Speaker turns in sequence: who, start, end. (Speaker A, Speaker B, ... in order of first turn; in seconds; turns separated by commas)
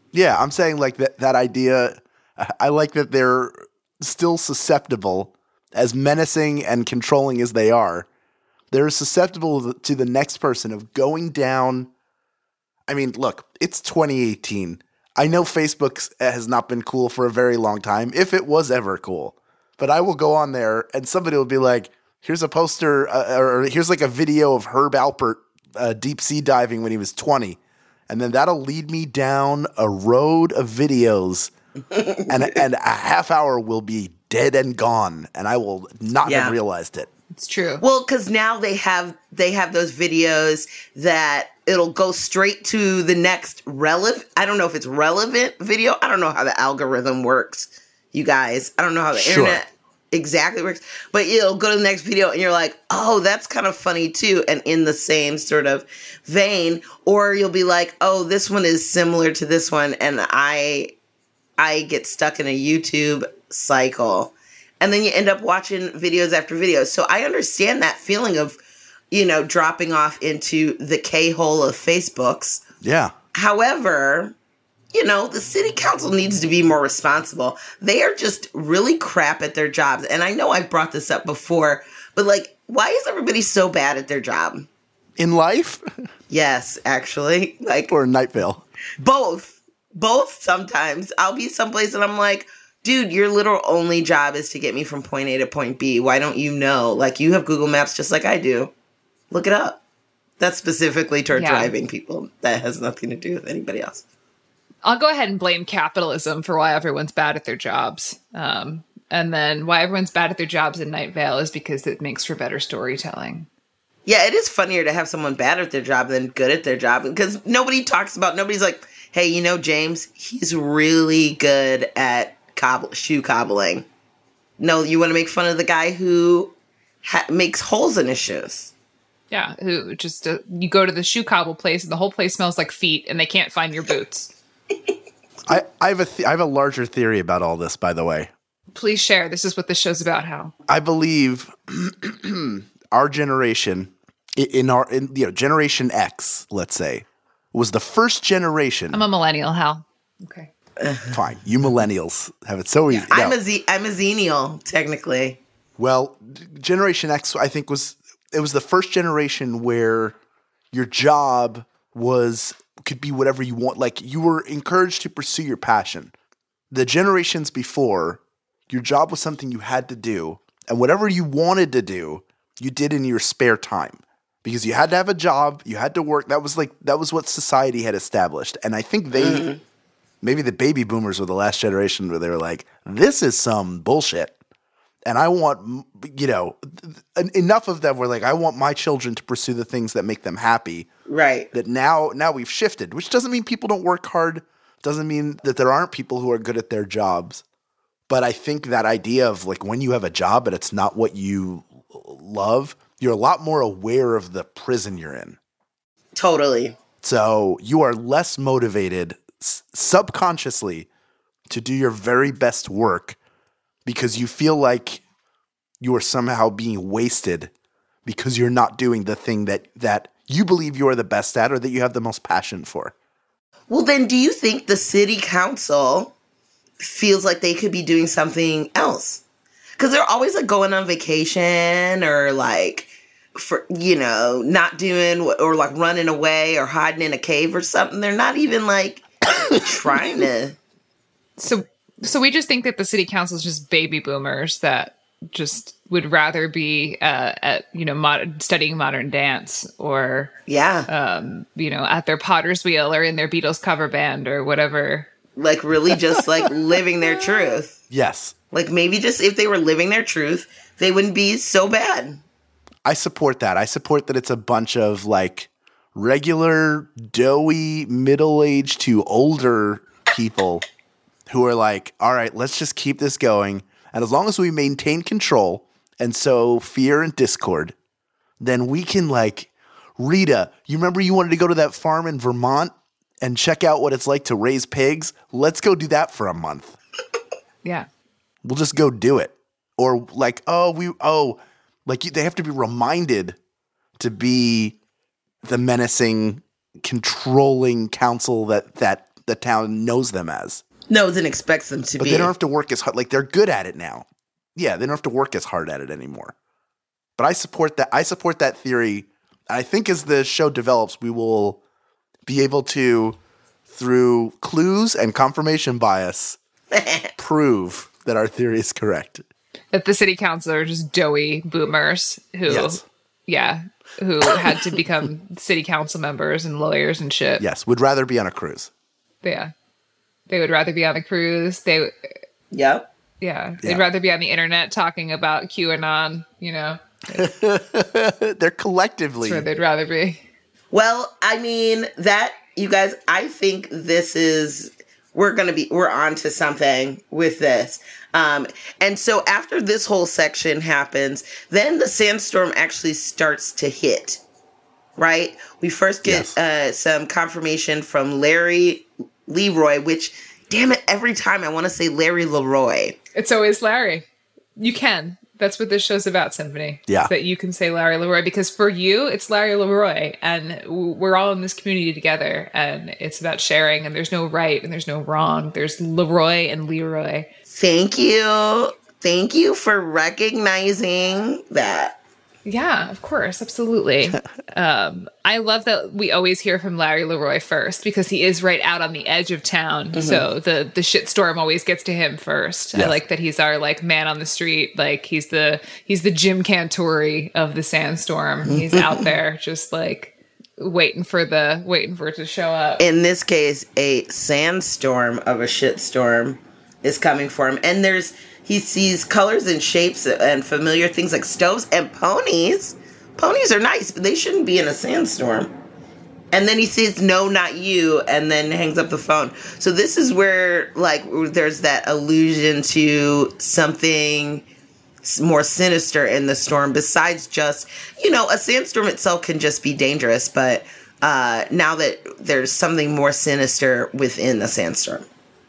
Speaker A: 0.1-8.1, Speaker A: 8.7-11.9, Speaker A: 12.9-31.5, Speaker B: 31.9-32.3, Speaker A: 32.3-37.1, Speaker B: 36.2-36.6, Speaker C: 37.3-37.8, Speaker B: 37.8-60.9, Speaker A: 49.1-49.6, Speaker B: 61.6-68.6, Speaker B: 69.1-72.6, Speaker A: 72.8-73.1, Speaker B: 73.3-74.3, Speaker B: 74.9-84.7, Speaker A: 85.2-85.8, Speaker B: 86.3-87.9, Speaker A: 87.9-88.6, Speaker B: 89.0-98.7, Speaker B: 99.3-99.8, Speaker B: 100.4-104.0, Speaker C: 101.3-101.7, Speaker C: 104.8-113.5, Speaker B: 114.1-123.9, Speaker B: 124.6-128.7, Speaker C: 129.3-134.3, Speaker A: 135.4-138.3, Speaker C: 138.7-140.5, Speaker A: 140.7-149.0, Speaker C: 148.9-150.5, Speaker B: 150.8-151.1, Speaker A: 151.1-153.4, Speaker B: 152.9-155.4, Speaker A: 155.8-160.2, Speaker A: 160.7-166.1, Speaker A: 166.7-179.5, Speaker B: 179.2-179.6, Speaker A: 180.2-184.3, Speaker A: 185.1-190.9, Speaker B: 191.1-191.5, Speaker A: 191.5-197.4, Speaker A: 198.1-205.4, Speaker B: 206.2-206.8, Speaker A: 207.0-210.9, Speaker A: 211.5-213.2, Speaker A: 213.9-215.0, Speaker A: 215.8-217.5, Speaker A: 218.1-222.9, Speaker B: 223.7-226.1, Speaker B: 226.8-229.2, Speaker B: 229.8-240.6, Speaker C: 241.4-250.3, Speaker B: 250.5-250.9, Speaker C: 250.9-255.1, Speaker B: 255.4-257.8, Speaker A: 257.9-258.4, Speaker B: 258.5-262.2, Speaker A: 262.9-270.6, Speaker A: 271.3-277.8, Speaker A: 278.4-286.8, Speaker A: 288.4-293.4, Speaker A: 294.0-294.8, Speaker A: 295.4-300.6, Speaker B: 300.9-302.3, Speaker A: 302.0-306.4, Speaker A: 307.2-311.6, Speaker A: 312.3-316.4, Speaker B: 316.7-317.1, Speaker A: 317.2-319.2, Speaker C: 319.7-327.4, Speaker A: 322.5-322.8, Speaker A: 327.4-328.7, Speaker C: 329.2-329.5, Speaker C: 330.3-332.2, Speaker B: 332.5-332.9, Speaker C: 333.2-337.3, Speaker A: 337.1-339.5, Speaker C: 339.2-340.2, Speaker B: 340.7-354.2, Speaker B: 355.0-363.0, Speaker A: 356.0-356.3, Speaker C: 363.1-364.1, Speaker C: 364.6-377.3, Speaker B: 377.5-382.0, Speaker C: 382.4-402.8, Speaker B: 389.9-390.3, Speaker B: 398.5-399.1, Speaker B: 402.8-415.5, Speaker B: 416.3-424.4, Speaker B: 425.0-435.1